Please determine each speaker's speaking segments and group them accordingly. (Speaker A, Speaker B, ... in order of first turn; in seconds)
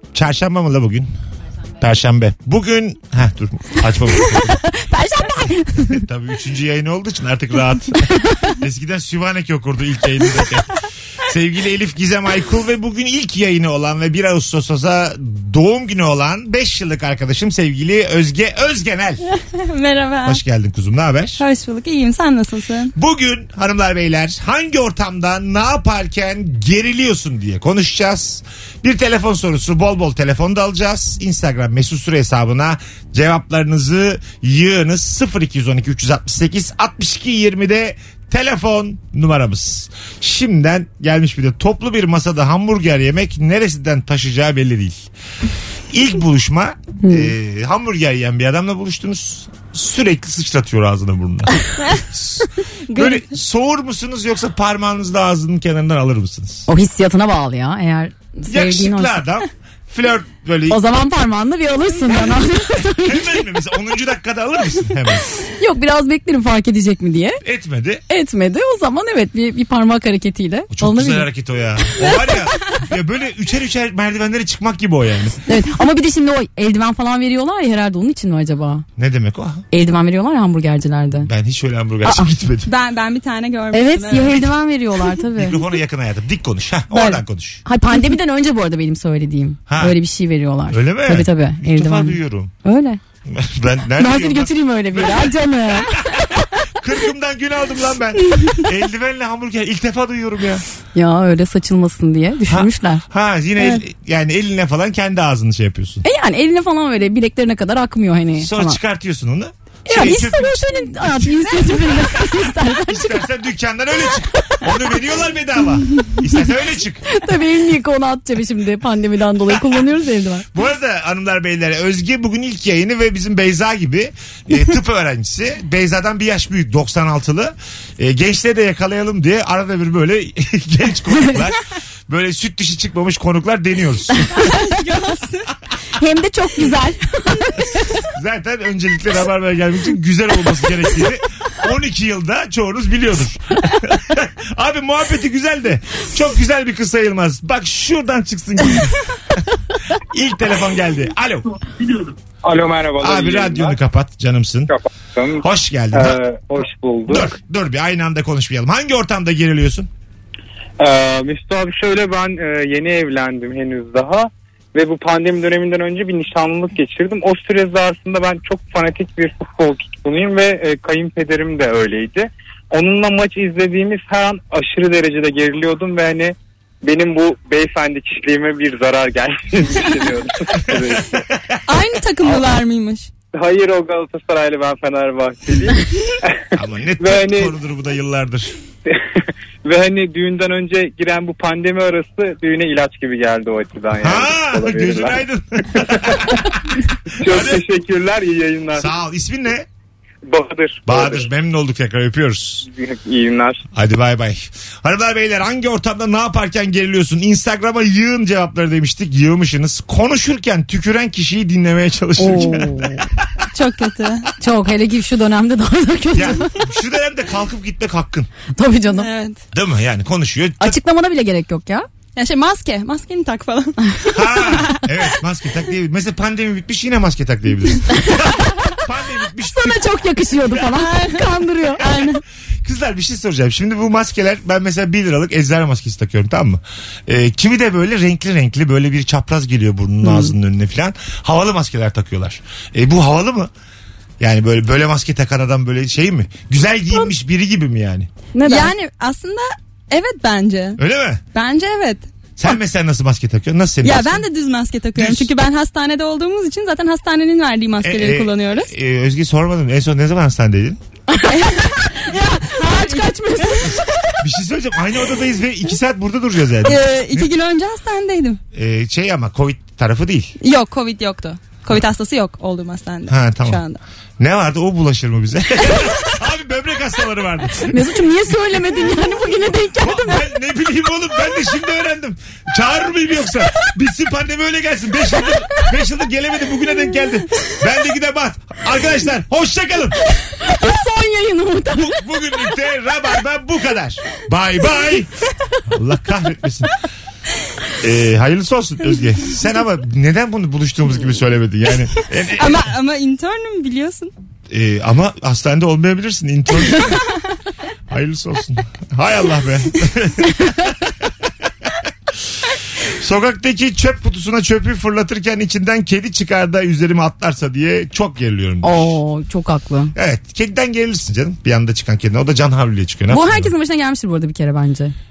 Speaker A: 0.1-1.1, 1.8-4.6, 5.9-19.2, 20.2-21.4, 22.9-45.0, 45.9-56.7, 58.5-60.8, 63.0-65.2, 67.4-68.0, 70.7-75.4, 79.0-79.6, 81.2-82.7, 85.3-87.6, 89.7-90.0, 90.7-92.5, 93.2-100.6, 102.5-106.0, 108.4-117.0, 120.5-134.5, 138.1-149.4, 149.9-151.5, 153.0-154.7, 155.4-156.2, 157.1-159.9, 186.5-188.6, 194.0-196.5, 197.2-197.6, 198.7-199.7, 200.8-202.7, 203.7-213.4, 216.1-218.3, 219.5-220.8, 224.1-229.9, 232.6-243.5, 244.2-248.1, 250.8-251.2, 252.4-254.2, 254.9-255.3, 257.8-260.8, 264.2-267.3, 268.5-270.3, 273.1-273.6, 274.2-277.8, 279.8-290.0, 291.8-295.1, 295.7-296.7, 297.8-302.7, 304.5-307.0, 307.9-311.1, 312.8-319.0, 319.9-323.5
Speaker B: 4.8-6.0, 47.0-47.3, 56.7-59.2, 60.7-63.4, 65.6-67.4, 68.1-71.2, 75.5-78.8, 79.7-81.3, 82.0-82.3, 83.7-85.6, 86.9-93.0, 94.0-96.2, 100.9-103.0, 106.0-108.8, 109.9-113.2, 117.1-120.5, 136.0-137.7, 212.2-213.0, 214.4-216.5, 218.5-219.1, 220.6-221.9, 229.5-231.8, 240.0-240.3, 248.3-248.7, 261.1-263.8, 277.7-280.2, 290.4-292.0, 318.6-319.9, 323.1-324.9
Speaker C: 19.5-20.4, 21.4-22.9, 52.9-53.3, 82.7-84.4, 134.3-135.5, 181.7-183.1, 213.5-214.3, 218.9-219.4, 222.2-224.8, 230.6-232.2, 248.4-250.8, 251.3-252.1, 253.8-258.7, 261.3-263.6, 266.6-268.4, 270.4-273.8, 302.3-304.1
Speaker D: 152.4-153.8, 154.7-157.3, 160.8-181.1, 183.3-186.4, 187.0-187.5, 188.9-195.2, 195.8-196.4, 197.1-198.9, 200.2-201.3, 202.7-203.6